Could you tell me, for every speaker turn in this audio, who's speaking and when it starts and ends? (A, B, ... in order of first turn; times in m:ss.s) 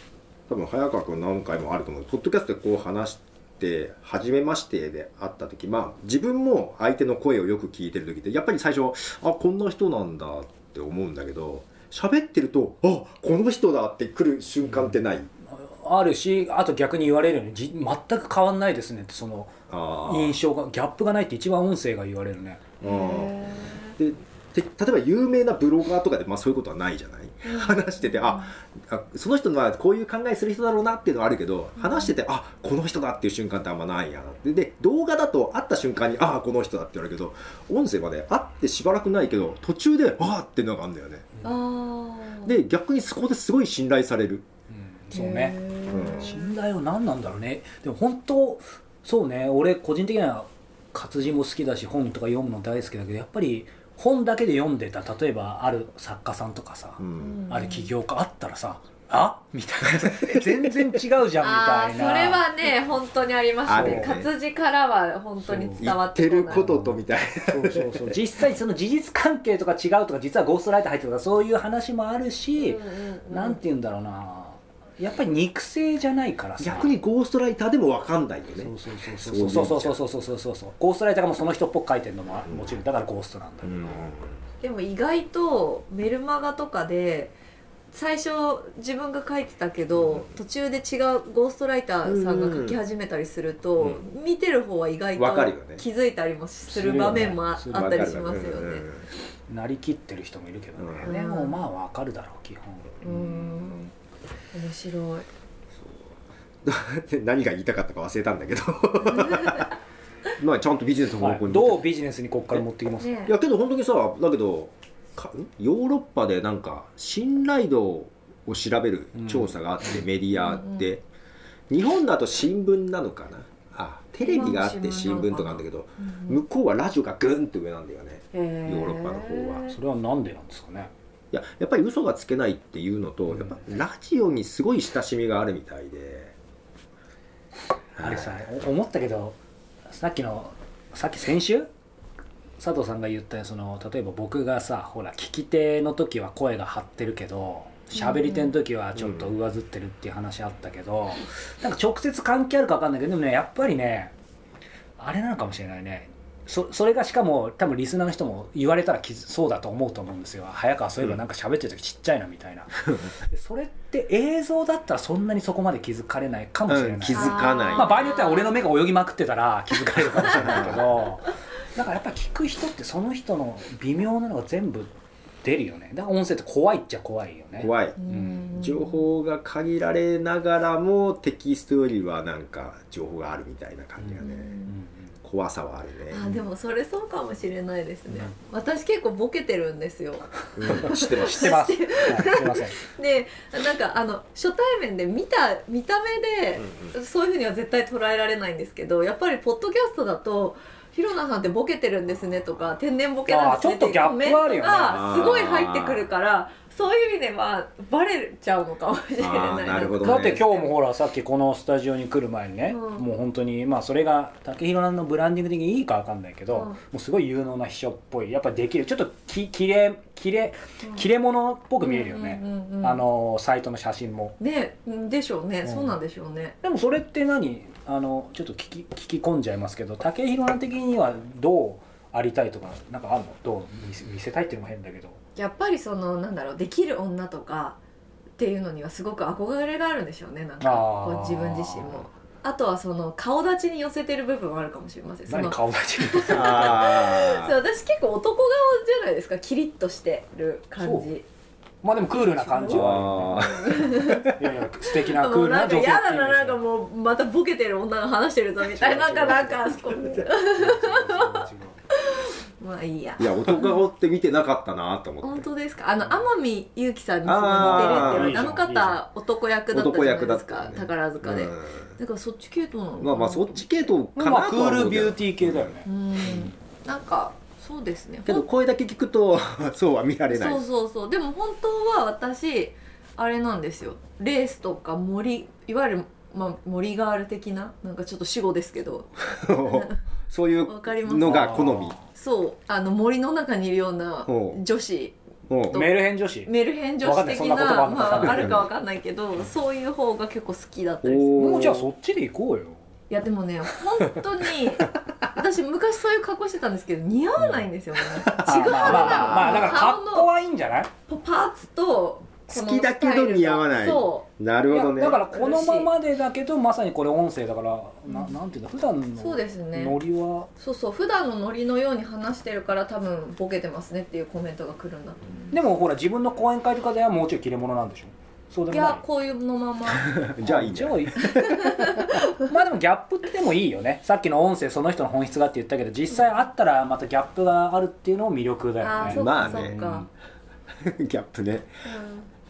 0:00.5-0:15.3 A
0:14.6-0:15.0 B
0:15.6-0:22.6 B
0:19.7-0:20.4 A
0:22.8-0:23.4 A
0:22.8-0:24.0 C
0:24.0-0:41.2 A
0:27.5-0:28.4 C
0:31.8-0:32.1 C
0:41.4-0:42.5 C
0:42.4-0:44.5 A
0:44.9-1:02.4 B
0:45.1-0:46.4 C
0:45.9-0:46.4 A
0:57.0-0:57.5 A
0:57.2-0:57.9 C
1:00.1-1:00.7 A
1:01.4-1:06.7 C
1:03.7-1:04.3 A
1:03.7-1:04.2 B
1:05.4-1:05.9 B
1:05.8-1:08.2 A
1:06.5-1:16.9 B
1:12.6-1:13.6 C
1:16.6-1:20.0 A
1:18.6-1:24.1 B
1:22.5-1:22.8 A
1:23.6-1:24.4 A
1:24.6-1:27.4 C
1:27.9-1:38.8 C
1:30.0-1:30.2 A
1:32.0-1:32.8 A
1:35.2-1:35.8 A
1:36.7-1:38.1 B
1:37.7-1:39.1 A
1:39.5-1:43.9 B
1:40.8-1:41.1 A
1:41.0-1:41.6 C
1:43.0-1:43.9 C
1:44.5-1:45.3 C
1:45.8-1:46.1 A
1:46.6-1:49.7 A
1:49.2-1:49.6 C
1:50.4-1:51.8 A
1:51.2-1:53.1 B
1:53.0-1:53.3 C
1:53.2-2:01.0 A
1:59.2-2:00.0 B
2:00.3-2:00.9 C
2:01.7-2:09.7 A
2:04.2-2:06.4 C
2:08.3-2:09.8 C
2:09.7-2:10.9 B
2:11.3-2:16.4 A
2:18.0-2:18.4 A
2:18.0-2:19.4 B
2:19.9-2:21.7 B
2:22.6-2:34.1 B
2:28.0-2:28.5 C
2:29.0-2:29.3 A
2:35.0-2:54.9 B
2:46.7-2:48.0 A
2:47.1-2:48.6 C
2:49.9-2:50.9 A
2:55.4-2:58.5 B
2:57.6-2:58.0 A
2:58.0-2:59.0 C
2:58.5-3:04.6 A
3:04.0-3:05.0 B
3:04.2-3:04.7 C
3:05.2-3:06.4 A
3:06.1-3:30.7 C
3:10.6-3:11.6 A
3:10.7-3:12.8 B
3:16.6-3:16.9 A
3:23.3-3:25.1 B
3:24.8-3:26.1 A
3:29.2-3:30.5 A
3:30.0-3:44.4 B
3:32.7-3:33.0 C
3:36.5-3:36.8 C
3:41.8-3:43.0 C
3:44.4-3:46.6 C
3:45.6-3:46.0 B
3:46.6-3:55.2 B
3:55.4-3:57.8 C
3:58.4-4:11.2 C
4:00.6-4:02.1 B
4:05.3-4:06.8 B
4:06.3-4:07.6 A
4:10.8-4:11.1 B
4:11.8-4:16.6 B
4:12.2-4:14.3 C
4:12.7-4:14.4 A
4:14.9-4:23.8 C
4:18.7-4:21.8 B
4:23.2-4:25.5 A
4:25.2-4:33.7 C
4:27.2-4:28.5 A
4:27.5-4:29.0 B
4:29.7-4:31.9 A
4:33.0-4:35.8 A
4:34.2-4:36.5 B
4:35.9-4:38.5 C
4:38.3-4:40.6 A
4:40.3-4:50.0 C
4:49.3-4:52.0 A
4:50.7-4:55.1 C
4:51.2-4:52.1 B
4:54.3-4:54.6 A
4:55.5-4:55.8 A
4:55.7-4:56.5 B
4:55.7-5:01.7 C
4:57.0-4:58.6 B
4:58.1-4:58.6 A
5:01.0-5:01.9 A
5:01.4-5:02.8 B
5:03.1-5:10.3 C
5:07.4-5:07.6 B
5:08.1-5:09.8 A
5:08.4-5:10.9 B
5:11.1-5:14.3 C
5:12.5-5:15.2 A
5:14.7-5:20.5 B
5:15.3-5:15.9 C
5:18.1-5:18.3 C
5:19.2-5:20.0 C
5:20.6-5:25.6 C
5:25.5-5:29.0 B
5:28.7-5:30.1 C
5:29.9-5:31.9 A
5:30.4-5:40.1 B
5:31.3-5:32.1 C
5:38.8-5:40.1 C
5:39.0-5:39.8 A
5:40.8-5:41.7 A
5:41.8-5:42.3 C